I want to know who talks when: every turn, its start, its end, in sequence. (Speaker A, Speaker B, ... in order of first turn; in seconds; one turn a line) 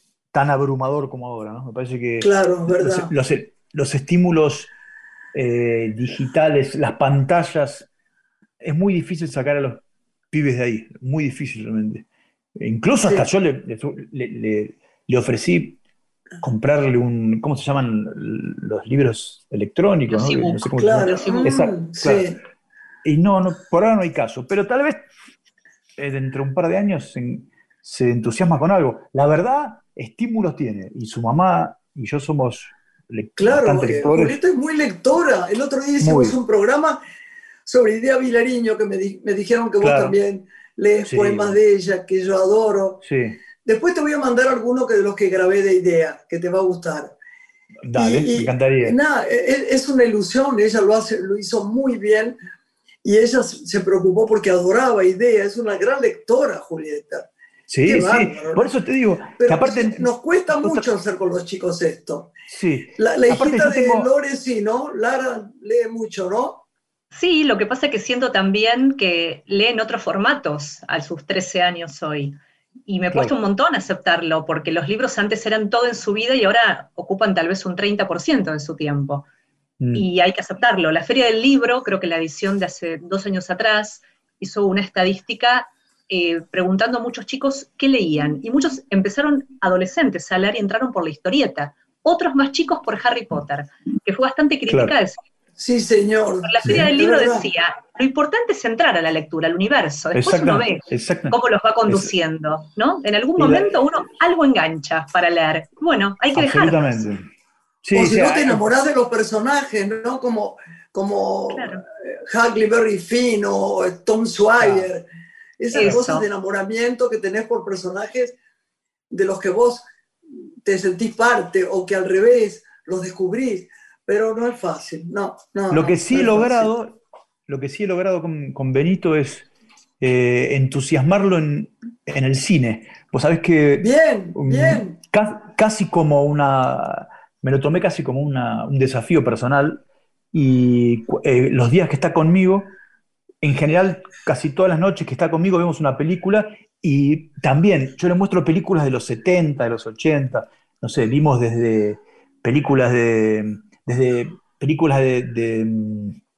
Speaker A: 0.3-4.7
Speaker B: 2.2-3.1
Speaker A: 5.3-7.9
Speaker A: 8.6-12.1
Speaker A: 12.6-15.8
Speaker A: 16.4-22.3
Speaker C: 20.1-21.5
Speaker B: 20.7-22.4
Speaker A: 23.0-25.0
Speaker A: 26.0-34.4
Speaker B: 33.4-37.0
Speaker A: 36.0-36.4
Speaker B: 37.6-43.0
Speaker A: 39.8-40.2
Speaker A: 41.0-41.6
Speaker A: 43.0-43.4
Speaker B: 43.6-47.1
Speaker A: 47.8-49.0
Speaker B: 47.9-52.4
Speaker B: 53.0-57.3
Speaker A: 57.7-60.9
Speaker B: 57.8-58.7
Speaker B: 59.4-62.3
Speaker A: 62.5-64.1
Speaker B: 63.0-66.6
Speaker C: 67.1-79.3
Speaker A: 79.8-80.0
Speaker C: 79.9-95.2
Speaker A: 94.7-94.9
Speaker B: 95.6-97.5
Speaker C: 96.4-106.9
Speaker A: 100.1-102.1
Speaker A: 103.4-103.8
Speaker A: 106.3-107.2
Speaker A: 107.8-108.7
Speaker B: 107.9-115.0
Speaker C: 111.5-111.8
Speaker A: 114.6-114.9
Speaker B: 115.6-118.4
Speaker C: 115.7-116.2
Speaker B: 119.1-119.8
Speaker B: 120.6-126.7
Speaker A: 125.7-129.5
Speaker A: 130.0-142.8
Speaker B: 133.8-135.0
Speaker A: 143.4-156.2